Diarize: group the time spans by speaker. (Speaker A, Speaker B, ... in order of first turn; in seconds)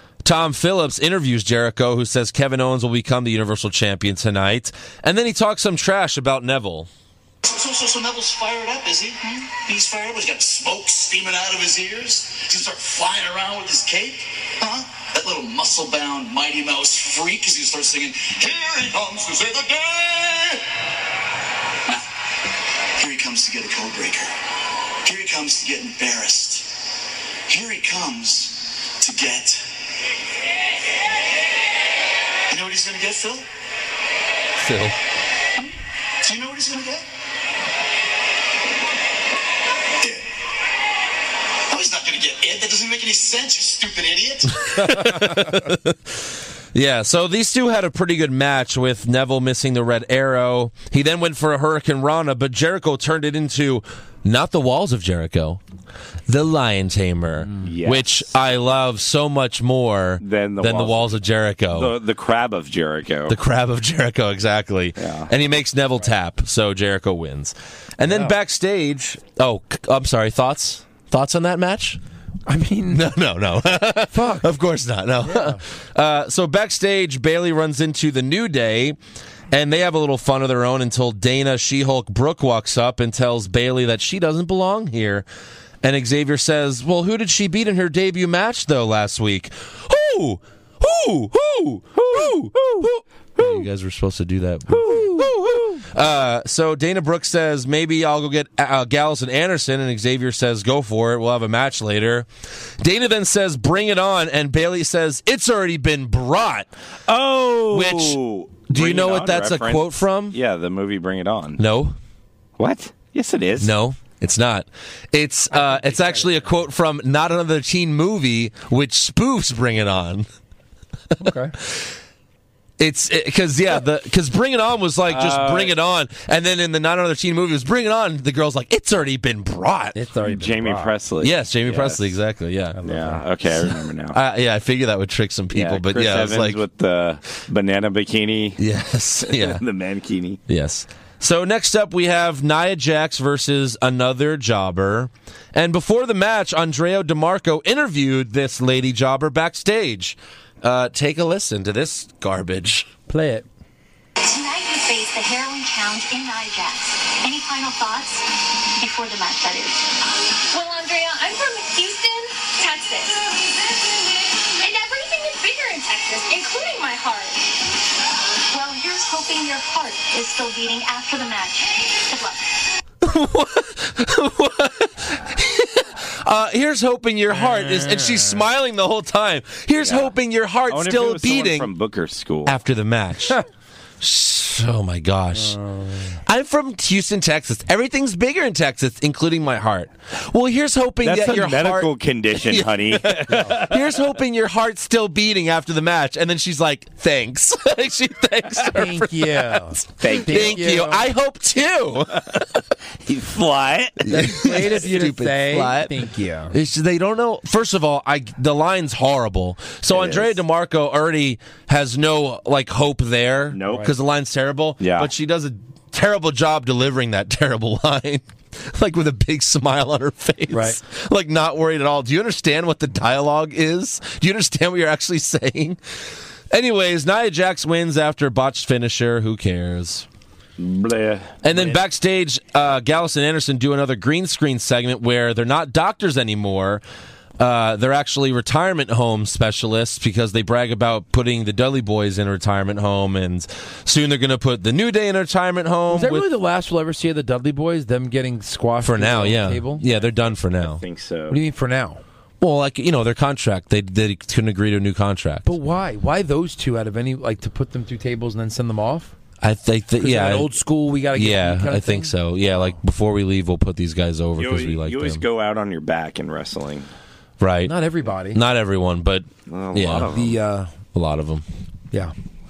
Speaker A: 0.2-6.9, 34.6-35.0, 44.5-55.6, 56.3-62.0, 63.3-72.0, 72.9-79.0, 79.5-85.2, 85.8-102.3, 102.8-106.7, 107.7-110.4, 111.6-112.0, 113.6-120.3, 122.8-130.0, 131.2-132.8, 133.7-136.6, 138.6-139.6, 140.5-152.9, 173.0-181.7, 182.5-183.4, 184.0-185.6, 186.2-202.6, 204.0-225.8, 226.5-230.1, 231.4-236.8, 237.4-246.3, 248.8-250.8, 252.4-255.5, 259.4-260.5, 261.1-265.2, 267.4-267.7, 268.3-270.3, 270.9-271.4
Speaker B: 7.4-20.6, 23.0-24.3, 25.0-26.7, 27.5-29.7, 32.5-33.5, 35.6-37.0, 41.7-44.6
Speaker C: 57.6-58.3, 60.2-63.4, 65.0-65.3, 92.0-93.7, 107.1-111.6, 112.6-113.7, 125.1-125.7, 130.2-132.1, 132.9-134.2, 135.5-138.6, 139.2-140.4, 179.8-180.1, 180.7-182.6, 191.0-194.0, 200.0-200.6, 203.1-204.1, 209.9-210.4, 213.5-213.9, 214.8-215.1, 230.6-231.8, 250.6-251.4, 264.4-266.9, 269.5-270.3
Speaker D: 68.0-68.3, 72.5-73.0, 74.1-74.5, 75.2-75.6, 94.7-95.3, 115.5-116.3, 121.2-121.5, 129.9-130.9, 132.8-133.2, 153.1-153.5, 177.4-178.4, 185.3-186.2, 193.3-193.6, 198.6-201.1, 204.1-206.5, 220.5-220.8, 245.9-249.8, 251.3-252.0, 255.4-259.1, 260.0-262.1, 267.6-268.4, 270.1-270.7
Speaker E: 154.2-159.9, 160.5-163.5, 164.6-167.4, 168.5-172.4